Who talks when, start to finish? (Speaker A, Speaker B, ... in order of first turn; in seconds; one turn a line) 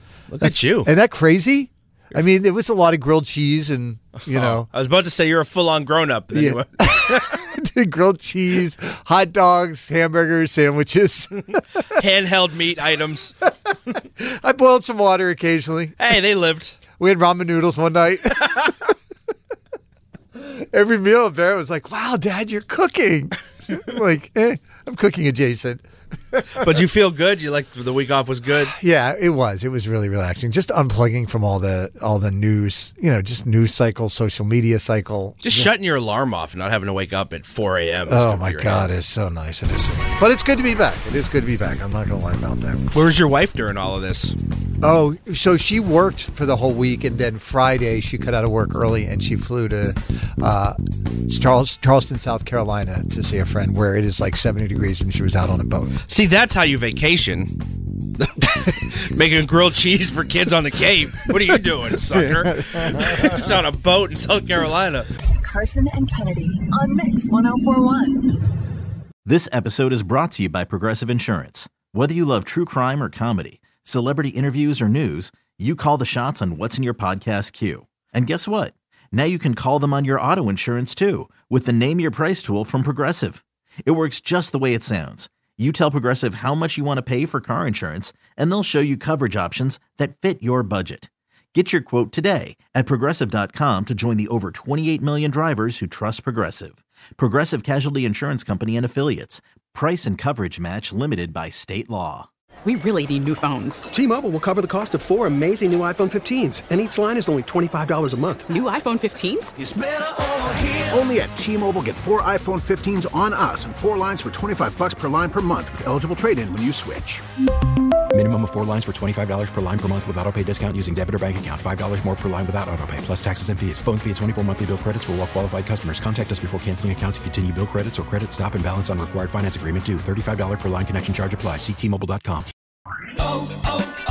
Speaker A: 0.3-0.9
Speaker B: 0.4-4.7
Speaker A: 4.3-7.3
Speaker B: 6.3-11.8
Speaker A: 12.0-13.3
Speaker B: 14.0-16.0
Speaker A: 16.0-16.8
Speaker B: 17.0-18.5
Speaker A: 18.4-18.7
Speaker B: 20.4-26.8
Speaker A: 26.6-28.7
Speaker B: 28.7-35.7
Speaker A: 35.4-38.9
Speaker B: 38.1-42.9
Speaker A: 42.9-44.4
Speaker B: 44.8-56.0
Speaker A: 56.1-57.5
Speaker A: 58.2-65.1
Speaker B: 62.1-63.2
Speaker C: 65.4-68.3
Speaker D: 69.2-102.3
Speaker E: 102.7-103.9
Speaker F: 103.9-108.5
Speaker E: 108.5-109.5
Speaker G: 109.6-117.2
Speaker H: 118.1-132.5